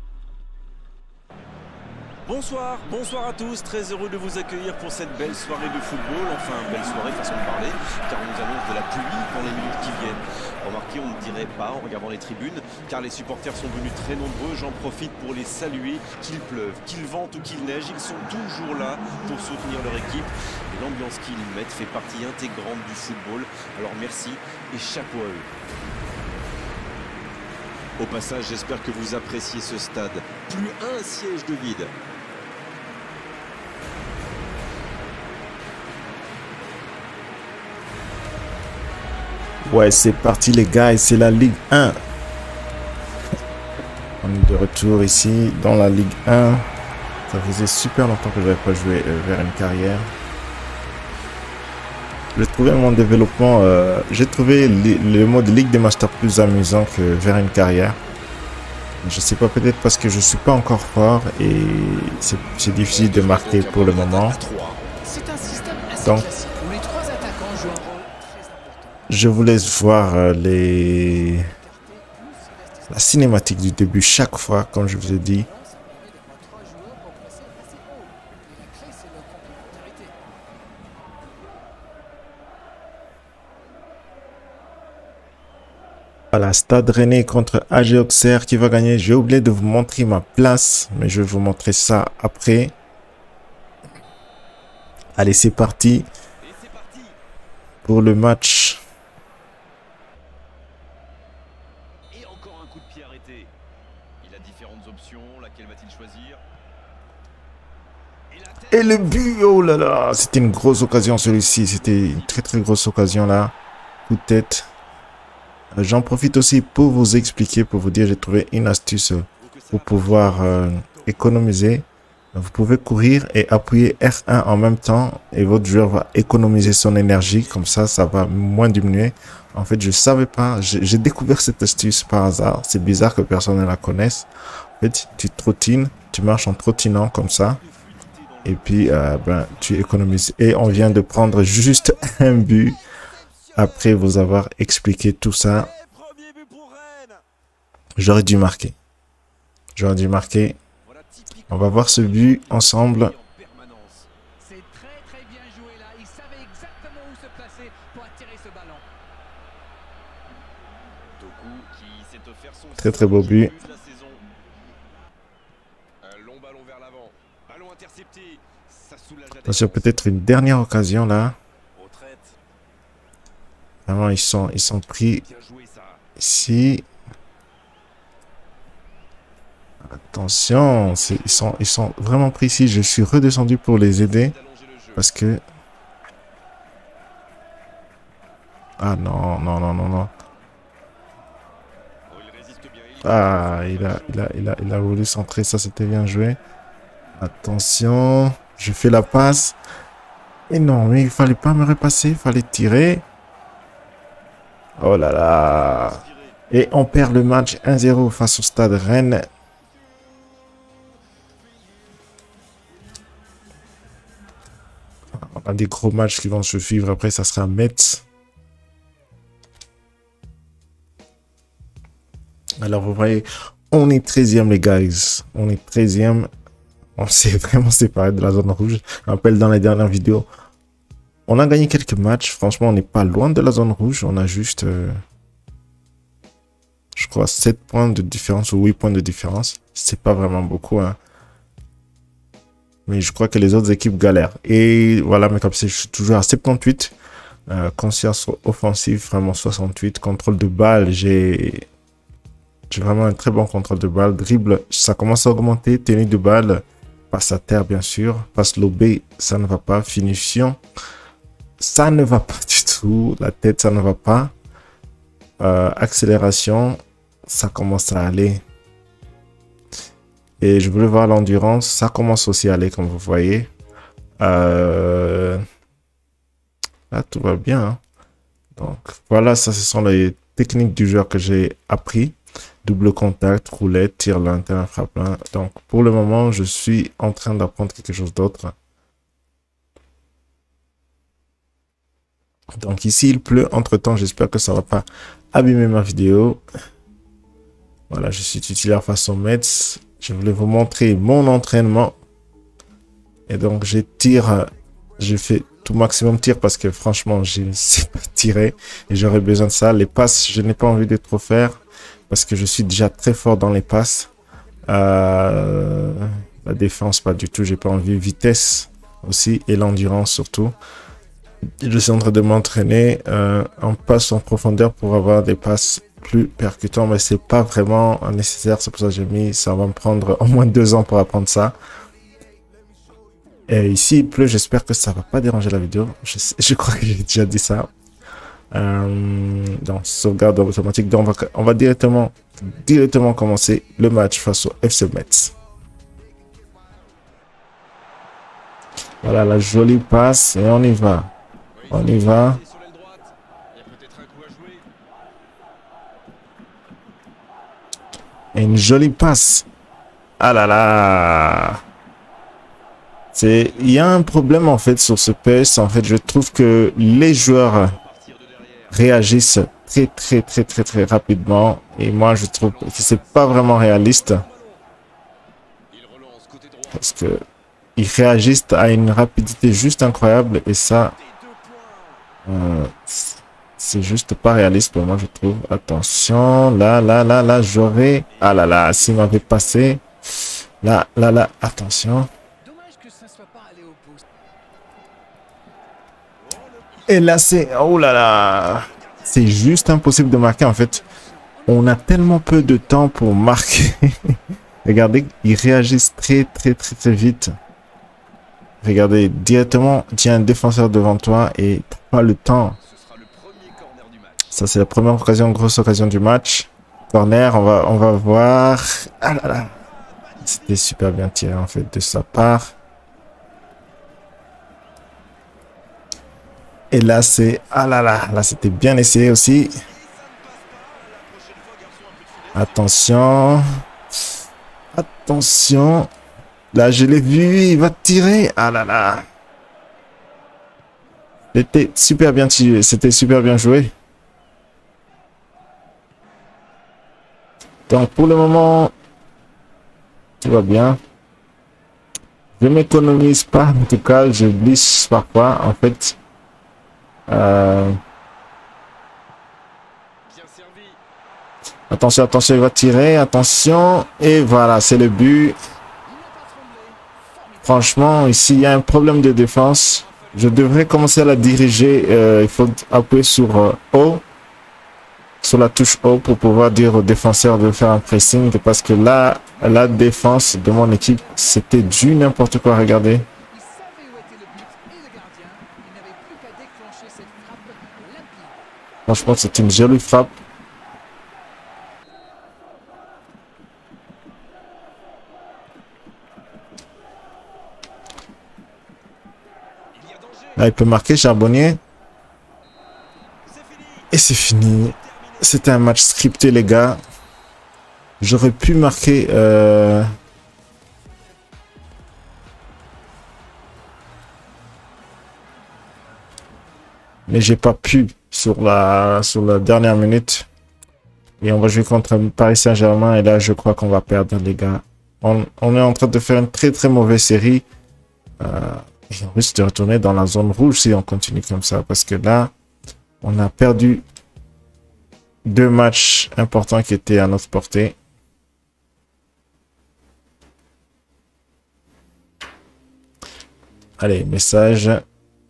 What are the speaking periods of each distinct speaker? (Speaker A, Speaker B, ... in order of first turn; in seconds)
Speaker A: 2.3-25.5, 28.0-31.9, 62.9-64.8, 96.4-97.2, 102.1-103.5, 104.2-106.4, 108.3-109.3, 110.7-112.5, 119.4-121.3, 127.1-127.9, 137.2-141.6, 143.5-143.8, 145.6-147.2, 150.8-154.1, 161.2-164.2, 166.0-169.9, 171.7-172.4, 175.2-176.0, 180.7-181.6, 184.0-185.0, 192.1-194.3, 205.5-206.4, 351.5-354.7, 367.0-368.8, 372.4-374.6, 375.7-376.9, 381.0-382.1, 388.1-389.8, 396.2-397.2, 398.5-399.8, 412.6-414.4, 419.8-420.6, 429.6-432.7, 460.1-460.8, 469.5-470.6, 499.7-500.5, 503.3-505.4
Speaker B: 39.7-42.0, 44.2-46.6, 47.3-50.1, 52.4-58.0, 59.0-64.4, 66.0-66.3, 69.1-71.5, 72.9-75.5, 86.3-92.8, 95.2-96.1, 97.8-98.8, 108.7-113.5, 114.1-114.7, 115.7-134.3, 134.8-137.6, 138.4-142.8, 143.6-145.7, 148.0-148.8, 149.8-150.6, 151.5-153.1, 162.8-163.5, 169.5-171.4, 173.9-175.2, 176.2-176.9, 180.1-184.3, 185.0-185.4, 188.8-190.1, 193.0-196.4, 197.2-199.6, 200.5-203.1, 204.8-209.3, 215.2-218.0, 222.6-226.3, 227.0-230.3, 231.3-235.0, 236.9-241.0, 242.9-246.9, 247.5-251.7, 252.7-260.6, 261.6-264.3, 265.4-268.4, 270.4-273.5, 274.2-275.4, 276.9-277.8, 278.6-288.5, 292.6-296.4, 297.9-302.0, 303.3-314.1, 314.7-320.6, 321.6-331.6, 333.5-337.7, 338.5-345.3, 349.0-351.1, 351.7-352.4, 358.4-359.5, 360.2-361.6, 363.1-367.8, 368.7-374.2, 376.8-377.2, 377.8-381.0, 382.3-389.8, 390.6-392.1, 396.9-400.8, 401.5-404.0, 404.6-407.3, 408.6-412.6, 414.3-419.5, 420.2-422.6, 426.7-429.6, 432.4-433.4, 434.7-435.9, 436.5-439.1, 441.3-443.7, 447.7-448.7, 450.2-450.8, 452.4-456.0, 457.1-457.8, 461.7-465.4, 467.4-474.0, 475.2-483.1, 488.9-490.1, 500.4-501.6, 503.9-506.8, 508.0-509.9, 517.1-520.3, 521.2-527.5, 528.2-532.3, 533.0-533.8, 535.2-537.8, 543.8-544.8
Speaker C: 65.0-69.1, 70.9-73.2, 74.8-80.2, 154.4-158.9, 392.4-394.0, 400.2-402.9, 465.9-468.1, 479.8-481.6, 483.3-488.5